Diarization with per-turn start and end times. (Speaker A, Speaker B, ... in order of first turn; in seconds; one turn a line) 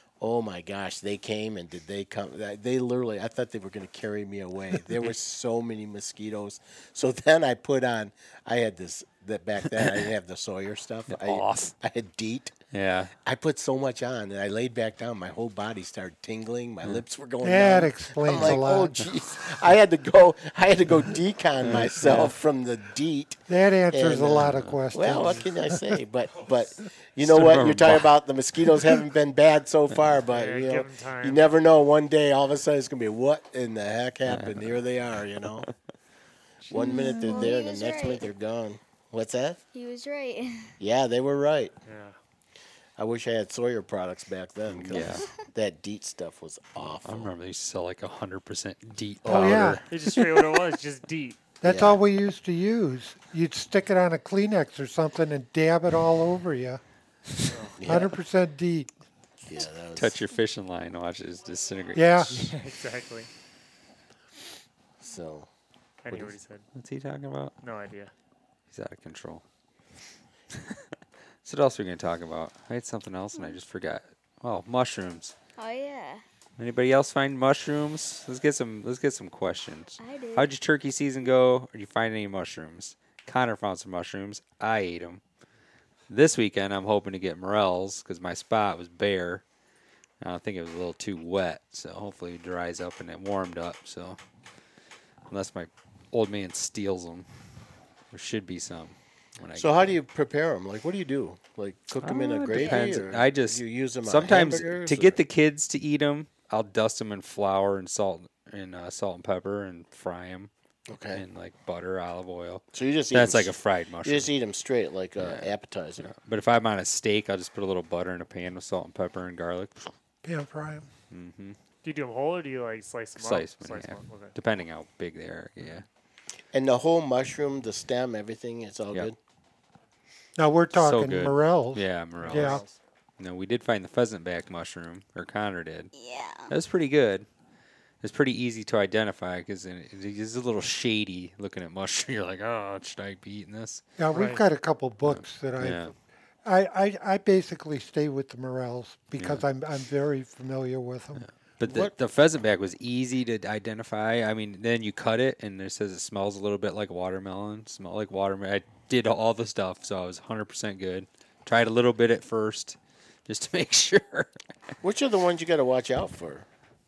Speaker A: 0.2-12.5
Speaker B: 11.1-11.7
Speaker B: 12.7-13.1
Speaker A: 13.2-35.7
Speaker C: 17.4-19.5
Speaker B: 18.2-18.6
Speaker B: 21.6-22.3
Speaker C: 23.5-25.8
Speaker B: 24.5-24.8
Speaker B: 27.2-28.1
Speaker D: 30.3-31.4
Speaker B: 34.3-34.8
Speaker D: 36.6-37.1
Speaker A: 36.7-39.6
Speaker E: 37.0-38.2
Speaker B: 37.1-37.5
Speaker E: 39.7-40.7
Speaker A: 40.8-41.8
Speaker D: 41.9-42.2
Speaker A: 43.0-47.3
Speaker B: 44.7-45.3
Speaker B: 47.0-49.8
Speaker C: 49.3-49.8
Speaker A: 49.3-49.7
Speaker D: 49.9-51.5
Speaker C: 51.6-56.8
Speaker A: 51.6-52.0
Speaker D: 57.5-57.8
Speaker A: 57.8-58.2
Speaker C: 57.8-58.9
Speaker A: 59.5-60.2
Speaker B: 60.0-62.5
Speaker C: 61.9-62.4
Speaker D: 62.3-63.3
Speaker A: 65.0-65.5
Speaker D: 66.0-66.7
Speaker B: 66.8-67.5
Speaker D: 67.6-68.1
Speaker B: 68.7-69.4
Speaker B: 70.5-70.8
Speaker B: 71.4-75.3
Speaker E: 73.3-73.6
Speaker E: 75.6-76.2
Speaker B: 76.6-85.2
Speaker E: 80.0-80.5
Speaker B: 86.1-89.4
Speaker B: 90.2-94.2
Speaker B: 95.3-97.3
Speaker B: 98.1-100.0
Speaker A: 99.6-105.2
Speaker B: 102.0-110.5
Speaker E: 102.5-103.0
Speaker A: 110.9-111.2
Speaker B: 111.1-114.3
Speaker A: 112.7-116.1
Speaker B: 115.2-115.5
Speaker B: 116.0-119.9
Speaker C: 120.2-120.9
Speaker B: 121.1-121.6
Speaker D: 121.8-124.3
Speaker B: 123.2-125.9
Speaker A: 126.5-129.2
Speaker C: 130.4-132.6
Speaker B: 130.7-132.6
Speaker A: 132.3-132.8
Speaker B: 133.2-135.9
Speaker E: 135.9-136.5
Speaker B: 136.5-137.3
Speaker B: 138.0-143.8
Speaker C: 144.0-145.8
Speaker D: 144.1-144.4
Speaker B: 145.1-145.9
Speaker C: 146.4-151.3
Speaker B: 149.2-149.5
Speaker B: 151.2-164.3
Speaker A: 151.6-151.9
Speaker A: 164.8-166.5